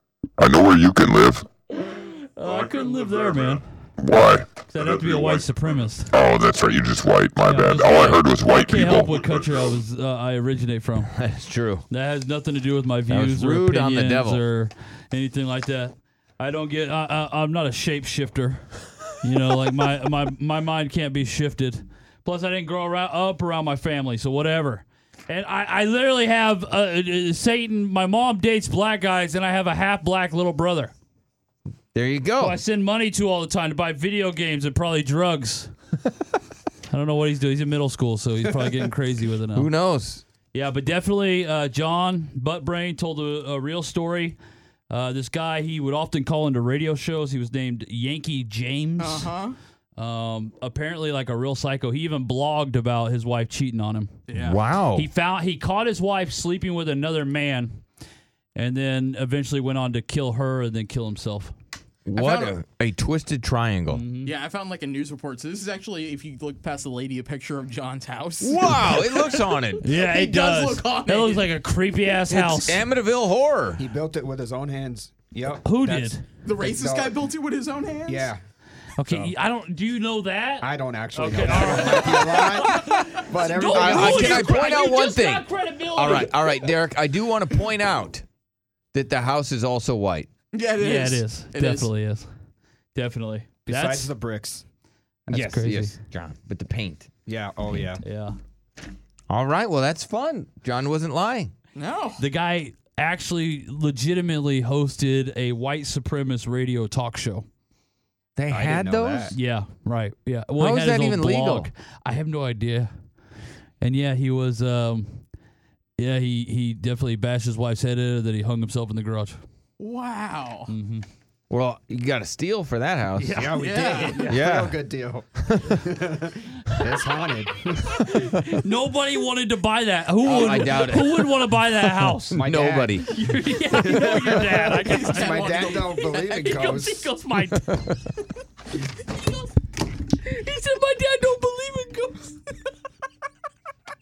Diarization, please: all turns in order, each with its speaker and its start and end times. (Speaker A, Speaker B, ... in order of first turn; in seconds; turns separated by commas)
Speaker A: 0.4-1.5, Speaker B: 1.8-3.6, Speaker A: 4.0-5.6, Speaker B: 4.6-6.3, Speaker A: 6.1-9.7, Speaker B: 7.4-11.2, Speaker C: 11.1-11.8, Speaker B: 11.9-30.9, Speaker C: 13.1-14.5, Speaker C: 31.9-32.6, Speaker B: 32.4-35.7, Speaker B: 36.9-39.7, Speaker C: 39.5-40.2, Speaker B: 40.5-44.4, Speaker B: 44.9-49.4, Speaker D: 49.0-49.6, Speaker B: 50.0-54.2, Speaker D: 54.3-54.6, Speaker C: 54.4-55.1, Speaker B: 54.9-57.8, Speaker B: 58.5-61.5, Speaker C: 62.1-64.0, Speaker D: 62.1-62.6, Speaker B: 63.9-64.3, Speaker D: 64.2-71.5, Speaker C: 68.4-69.9, Speaker B: 69.8-72.9, Speaker C: 72.3-73.8, Speaker E: 73.8-77.2, Speaker B: 75.6-76.4, Speaker D: 76.4-78.3, Speaker E: 78.1-78.4, Speaker B: 79.0-86.8, Speaker E: 79.1-79.3, Speaker E: 80.6-84.6, Speaker C: 83.7-88.2, Speaker C: 88.9-90.3, Speaker D: 90.5-91.9, Speaker B: 90.8-92.3, Speaker B: 93.0-94.1, Speaker E: 93.7-94.6, Speaker C: 95.3-97.1, Speaker B: 95.3-96.0, Speaker E: 97.3-98.0, Speaker B: 98.0-98.4, Speaker C: 99.3-101.5, Speaker D: 101.8-102.2, Speaker B: 102.2-107.5, Speaker C: 108.4-109.4, Speaker E: 108.5-109.3, Speaker B: 109.3-112.9, Speaker C: 110.6-111.7, Speaker B: 113.8-115.3, Speaker B: 116.0-119.4, Speaker D: 119.8-120.7, Speaker B: 120.7-121.1, Speaker C: 121.5-123.4, Speaker B: 123.2-124.4, Speaker E: 123.3-128.0, Speaker D: 123.6-124.2, Speaker C: 124.3-124.8, Speaker C: 125.4-125.8, Speaker B: 127.9-132.5, Speaker C: 128.2-128.6, Speaker C: 130.2-131.4, Speaker C: 132.1-133.1, Speaker E: 132.3-133.0, Speaker B: 133.0-138.3, Speaker E: 133.7-137.1, Speaker D: 134.6-136.2, Speaker C: 137.6-137.9, Speaker B: 139.0-139.5, Speaker B: 140.0-142.5